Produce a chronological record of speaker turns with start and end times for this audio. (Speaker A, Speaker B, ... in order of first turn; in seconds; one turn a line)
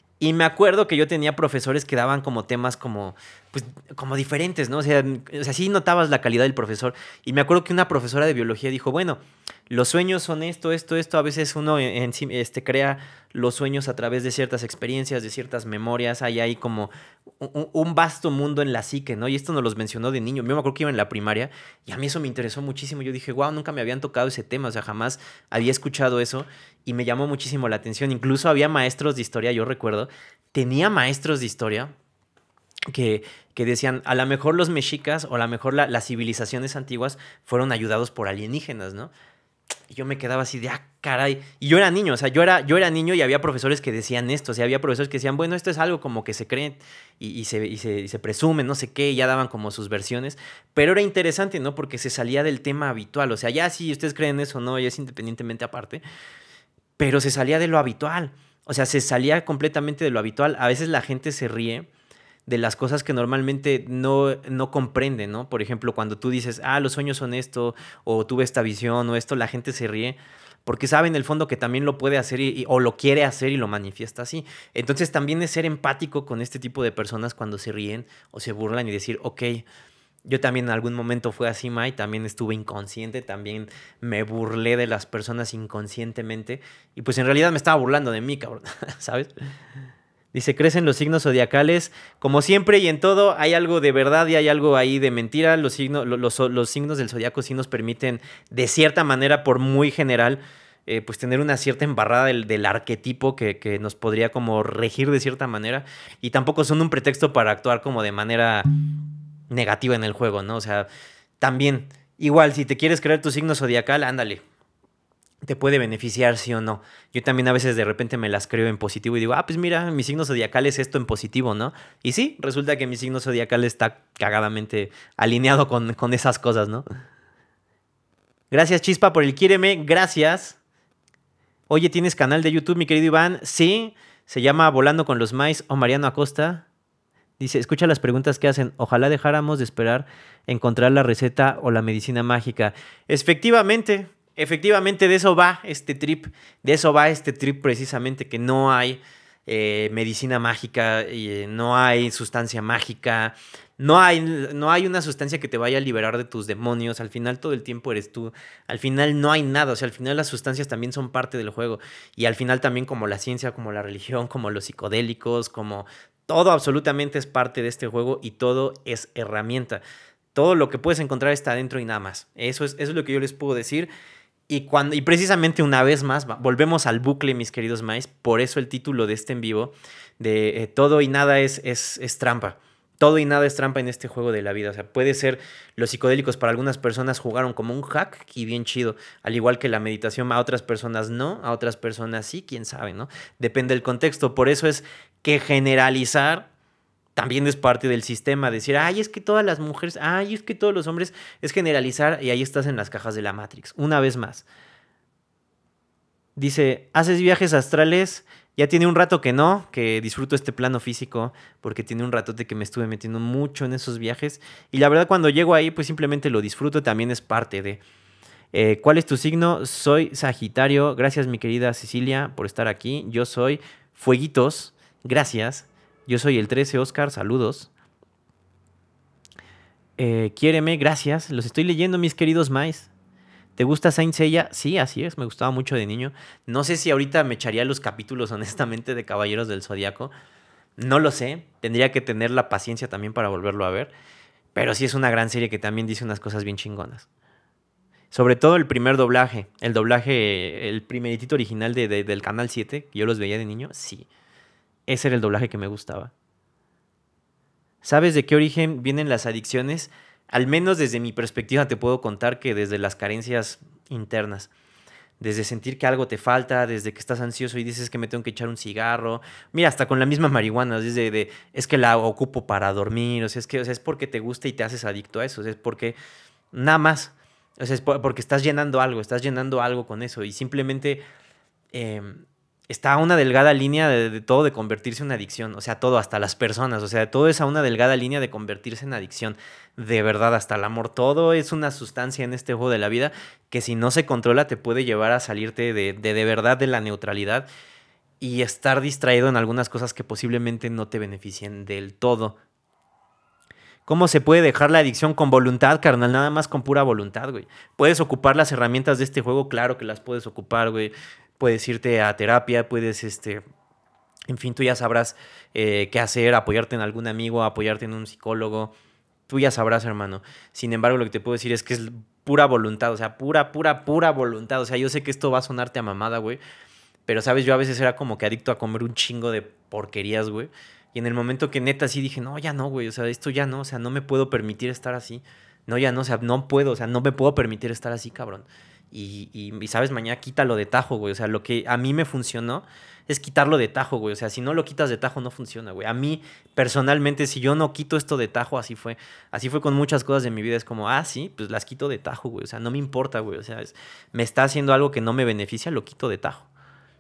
Speaker A: 0.2-31.9
Speaker A: 32.9-39.1
Speaker A: 39.9-56.0
Speaker A: 57.0-61.9
Speaker A: 62.5-79.7
Speaker A: 80.3-89.3
Speaker A: 90.3-108.7
Speaker A: 109.5-110.9
Speaker A: 111.4-114.4
Speaker A: 115.4-126.8
Speaker A: 128.5-130.6
Speaker A: 131.7-136.7
Speaker A: 137.4-169.8
Speaker A: 170.3-173.9
Speaker A: 174.5-196.5
Speaker A: 197.2-204.5
Speaker A: 206.4-217.8
Speaker A: 218.5-227.7
Speaker A: 230.0-232.9
Speaker A: 233.6-240.1
Speaker A: 240.8-243.9
Speaker A: 244.6-247.1
Speaker A: 248.1-254.1
Speaker A: 254.9-256.1
Speaker A: 257.8-264.5
Speaker A: 265.2-276.0
Speaker A: 276.5-281.0
Speaker A: 281.7-297.5
Speaker A: 298.2-302.4
Speaker A: 303.9-313.4
Speaker A: 314.3-318.7
Speaker A: 319.3-326.4
Speaker A: 327.1-356.5